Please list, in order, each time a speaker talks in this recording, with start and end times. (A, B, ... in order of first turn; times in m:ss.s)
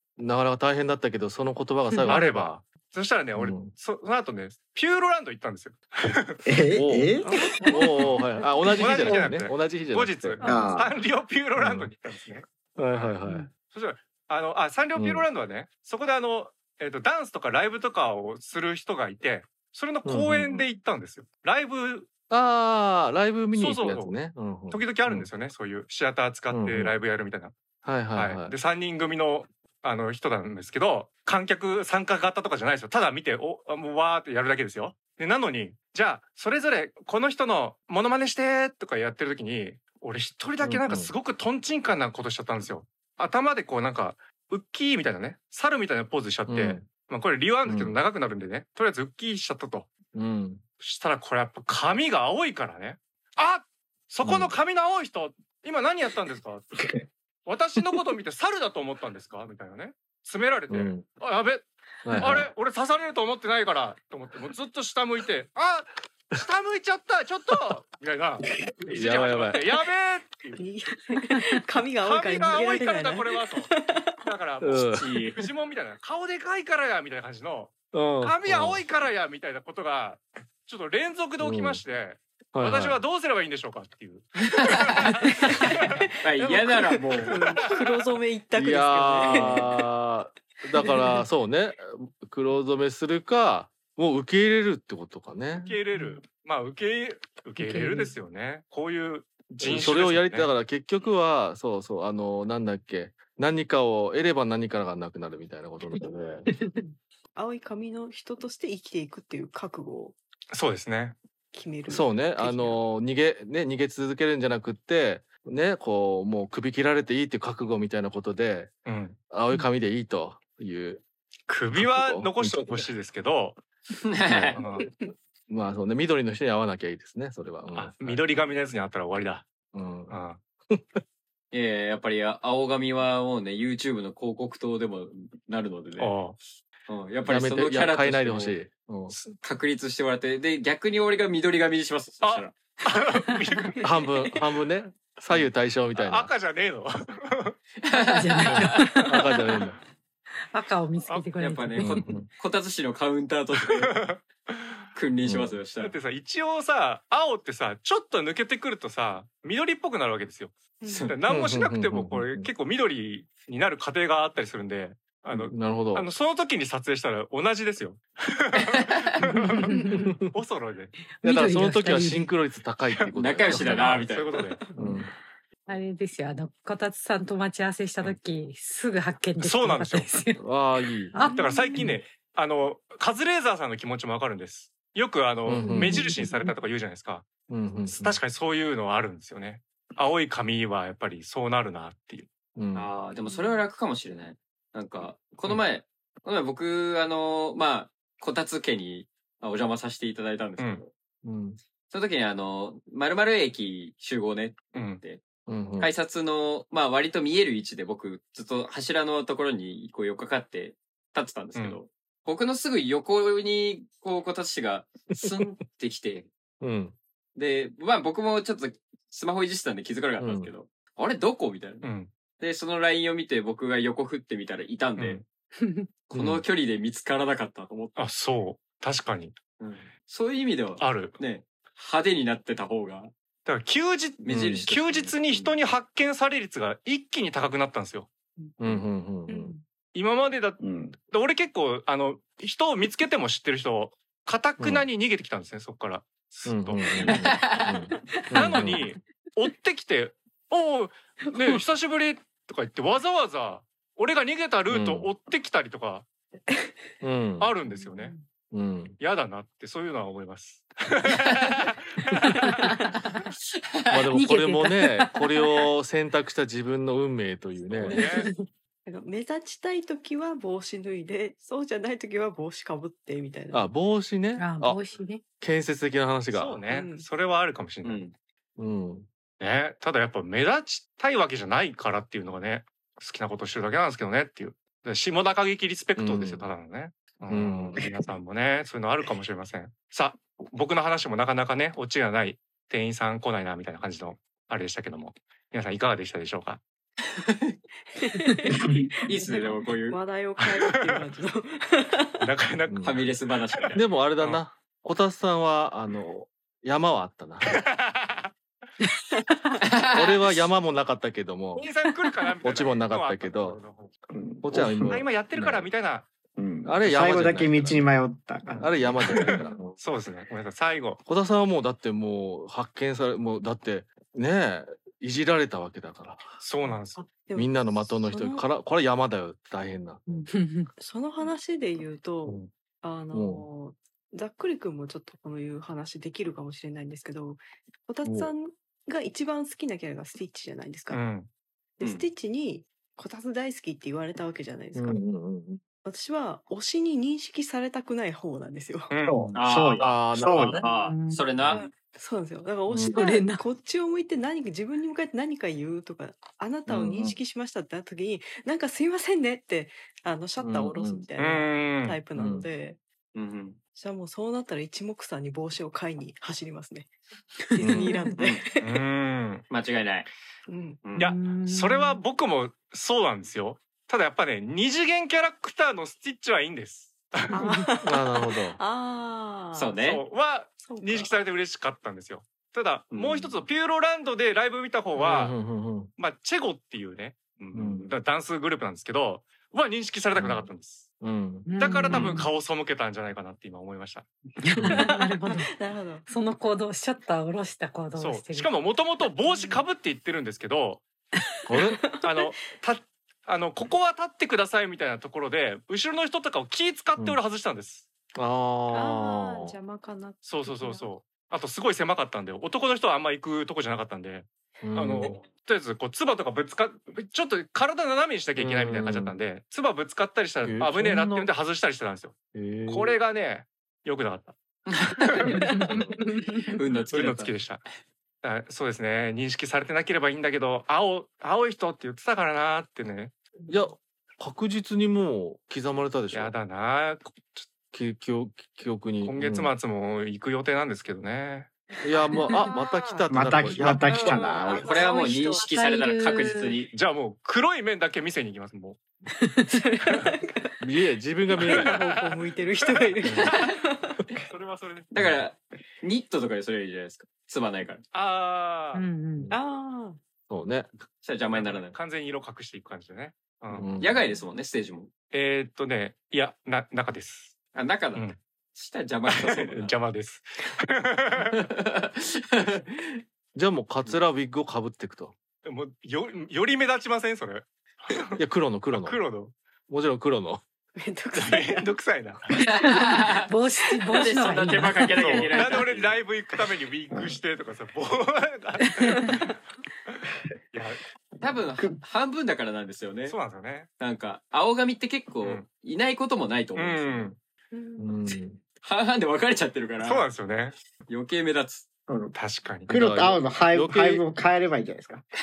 0:00.2-0:02.6 A
0:02.1-0:06.4 B
0:03.4-0:03.7 A
0:06.5-0:07.4 C
0:06.7-0:07.1 A
0:07.2-0:07.9 D
0:07.7-0:10.4 A
0:08.8-0:22.1 B
0:10.4-0:10.7 D
0:10.4-0:10.9 C
0:11.6-0:11.9 A
0:12.8-0:13.5 A
0:15.0-0:15.2 A
0:20.0-0:20.6 A
0:22.3-0:25.3 A
0:23.5-0:24.2 B
0:24.7-0:27.5 B
0:26.5-0:27.0 A
0:27.8-0:28.5 A
0:28.2-0:49.9 B
0:40.6-0:41.1 A
0:46.5-0:46.9 A
0:47.7-0:48.0 A
0:50.1-0:50.6 A
0:50.8-0:56.9 B
0:54.2-0:54.5 A
0:57.4-1:10.6 B
1:00.7-1:01.0 A
1:02.0-1:02.5 A
1:08.9-1:09.6 A
1:10.6-1:14.2 D
1:12.0-1:26.5 B
1:14.6-1:15.1 A
1:14.8-1:15.4 E
1:17.9-1:18.8 A
1:21.4-1:21.8 A
1:22.5-1:23.0 A
1:24.6-1:25.1 E
1:26.2-1:27.4 E
1:27.3-1:29.7 D
1:28.6-1:35.8 A
1:35.6-1:40.5 B
1:37.6-1:38.1 F
1:39.6-1:46.5 A
1:46.8-1:50.2 D
1:50.5-1:51.2 B
1:51.5-1:52.8 D
1:51.9-1:58.7 A
1:58.9-1:59.2 B
1:59.3-2:01.0 A
2:01.5-2:03.6 B
2:01.7-2:02.9 A
2:04.0-2:04.6 E
2:04.3-2:04.6 A
2:04.6-2:04.9 B
2:05.5-2:08.2 A
2:07.8-2:09.5 B
2:09.7-2:10.2 A
2:10.1-2:10.4 B
2:10.7-2:11.0 A
2:11.5-2:16.2 E
2:16.0-2:16.4 B
2:16.9-2:18.6 E
2:17.2-2:19.2 A
2:19.2-2:22.6 E
2:22.2-2:23.8 B
2:23.8-2:26.3 A
2:26.0-2:27.6 B
2:27.8-2:28.8 E
2:28.0-2:29.4 F
2:28.5-2:29.8 A
2:30.5-2:32.0 F
2:31.4-2:33.9 E
2:31.8-2:32.3 A
2:33.7-2:34.7 B
2:35.0-2:36.0 E
2:35.2-2:35.6 A
2:35.8-2:40.5 B
2:40.8-2:41.1 D
2:40.9-2:41.2 E
2:41.1-2:49.7 B
2:41.3-2:42.5 A
2:45.4-2:46.1 A
2:48.6-2:49.0 E
2:49.3-2:50.1 F
2:50.3-2:51.0 B
2:51.2-2:52.3 F
2:51.2-2:54.1 A
2:53.0-2:54.6 B
2:53.1-2:54.4 E
2:54.8-2:55.1 A
2:55.7-3:00.4 F
2:59.4-3:00.1 B
3:00.4-3:01.1 A
3:01.1-3:02.0 F
3:01.2-3:01.9 D
3:01.3-3:07.3 B
3:05.5-3:06.1 A
3:05.7-3:06.5 F
3:07.5-3:08.2 A
3:07.9-3:12.3 B
3:12.6-3:12.9 A
3:12.8-3:20.9 E
3:13.3-3:13.6 D
3:20.6-3:20.8 B
3:21.2-3:21.6 A
3:21.9-3:25.2 E
3:24.7-3:25.0 B
3:25.5-3:25.9 A
3:25.8-3:36.3 E
3:35.2-3:35.5 A
3:36.6-3:37.0 A
3:37.4-3:41.9 E
3:40.2-3:40.5 A
3:41.8-3:42.1 B
3:42.4-3:45.2 E
3:45.6-3:45.9 F
3:46.1-3:48.0 E
3:46.1-3:46.4 A
3:48.0-3:49.4 B
3:49.6-3:53.1 E
3:50.8-3:51.2 B
3:53.5-3:58.1 B
3:54.2-3:55.6 E
3:54.3-3:54.7 A
3:58.6-3:59.5 A
3:59.3-3:59.6 D
4:00.0-4:07.1 B
4:00.6-4:01.0 C
4:04.6-4:04.9 A
4:06.5-4:08.9 A
4:07.1-4:07.8 E
4:08.3-4:16.1 B
4:14.7-4:15.1 A
4:17.0-4:17.5 A
4:17.4-4:18.2 B
4:17.7-4:18.2 D
4:18.5-4:19.0 A
4:19.0-4:22.7 B
4:22.4-4:22.7 F
4:23.9-4:28.0 A
4:24.1-4:25.6 F
4:27.6-4:28.3 B
4:28.0-4:28.3 D
4:28.9-4:33.7 D
4:33.5-4:34.8 A
4:34.4-4:35.2 F
4:35.4-4:36.6 A
4:36.3-4:38.0 B
4:36.7-4:37.1 D
4:37.8-4:38.1 E
4:38.6-4:39.1 A
4:39.4-4:56.6 B
4:46.0-4:46.5 A
4:47.3-4:47.8 A
4:57.2-4:57.6 E
4:58.0-5:02.2 D
4:59.1-5:00.0 E
5:02.2-5:04.4 B
5:02.7-5:03.0 A
5:02.8-5:03.8 E
5:03.8-5:07.6 A
5:07.5-5:08.3 B
5:09.6-5:10.4 E
5:10.0-5:11.7 A
5:11.6-5:13.9 B
5:12.4-5:13.6 A
5:14.1-5:15.1 C
5:14.4-5:15.7 A
5:14.9-5:16.1 B
5:16.4-5:19.7 C
5:16.6-5:17.8 A
5:18.6-5:19.6 A
5:19.2-5:21.0 B
5:21.0-5:26.2 A
5:26.4-5:27.0 B
5:27.0-5:28.5 D
5:27.4-5:30.0 A
5:30.1-5:30.7 F
5:30.8-5:41.0 D
5:33.1-5:33.5 A
5:38.0-5:38.3 A
5:40.9-5:41.3 B
5:41.8-5:45.0 D
5:44.8-5:45.6 A
5:45.8-5:48.9 D
5:48.9-5:49.3 B
5:49.0-5:50.6 C
5:49.3-5:50.6 A
5:49.4-5:51.6 E
5:50.6-5:51.6 F
5:51.5-6:02.8 D
5:52.7-5:53.0 A
5:52.9-5:53.4 F
5:56.7-5:57.2 A
6:00.4-6:01.0 A
6:01.2-6:02.0 B
6:02.2-6:02.5 A
6:03.2-6:03.6 E
6:03.8-6:06.9 D
6:07.5-6:08.8 D
6:07.6-6:08.2 F
6:08.6-6:09.4 B
6:09.5-6:10.1 E
6:10.5-6:10.8 D
6:10.8-6:11.1 E
6:11.0-6:12.0 F
6:11.0-6:17.2 B
6:17.3-6:19.8 D
6:17.4-6:17.7 F
6:17.8-6:18.6 A
6:19.6-6:20.0 E
6:19.8-6:25.4 B
6:20.6-6:21.1 D
6:22.9-6:23.4 E
6:25.0-6:25.9 A
6:26.0-6:30.9 B
6:27.5-6:27.9 A
6:30.2-6:30.5 A
6:31.0-6:32.2 A
6:31.4-6:32.3 F
6:31.6-6:34.1 B
6:34.4-6:35.5 F
6:34.7-6:36.1 D
6:36.1-6:38.5 F
6:38.0-6:40.8 B
6:39.2-6:39.6 D
6:41.5-6:41.8 A
6:41.6-6:42.3 D
6:42.0-6:47.9 B
6:48.2-6:49.6 A
6:48.7-6:50.9 D
6:50.2-7:02.2 B
6:54.6-6:55.2 A
6:58.4-6:59.2 A
7:00.4-7:01.3 A
7:02.3-7:03.0 A
7:02.7-7:04.4 B
7:04.7-7:05.4 E
7:05.0-7:05.4 B
7:05.3-7:06.6 F
7:06.5-7:07.3 E
7:06.9-7:07.6 B
7:08.2-7:13.1 B
7:13.5-7:16.3 A
7:16.1-7:17.5 B
7:17.7-7:19.5 A
7:19.0-7:21.5 B
7:21.8-7:24.1 A
7:22.0-7:25.6 D
7:23.1-7:24.9 C
7:24.6-7:26.7 E
7:24.7-7:26.6 F
7:26.7-7:28.8 B
7:29.5-7:30.5 D
7:30.6-7:31.8 A
7:31.4-7:33.5 B
7:31.4-7:34.0 D
7:33.1-7:33.5 E
7:34.3-7:34.9 B
7:34.9-7:37.8 E
7:35.0-7:35.2 A
7:37.9-7:38.8 B
7:38.7-7:39.3 F
7:39.3-7:40.0 D
7:40.3-7:40.7 A
7:41.0-7:41.8 E
7:41.3-7:43.7 B
7:43.5-7:44.0 A
7:43.8-7:44.9 E
7:45.1-7:47.4 B
7:47.5-7:49.7 E
7:49.1-7:51.4 B
7:51.4-7:53.0 E
7:53.4-7:55.1 A
7:55.4-7:58.2 B
7:58.2-7:59.0 A
7:58.7-7:59.4 B
7:59.7-8:00.4 A
8:00.8-8:01.7 D
8:01.2-8:02.3 B
8:02.4-8:03.3 E
8:02.6-8:05.4 F
8:03.9-8:06.0 E
8:03.9-8:04.7 D
8:05.0-8:09.4 B
8:06.9-8:07.2 C
8:08.8-8:09.1 F
8:09.9-8:10.8 B
8:11.2-8:13.2 E
8:13.0-8:13.7 B
8:13.8-8:17.1 E
8:16.6-8:17.2 B
8:17.5-8:18.2 D
8:17.8-8:18.4 A
8:18.6-8:20.1 E
8:19.8-8:20.6 B
8:20.9-8:21.7 E
8:21.9-8:22.2 C
8:22.1-8:22.7 B
8:22.7-8:24.0 A
8:22.7-8:25.0 C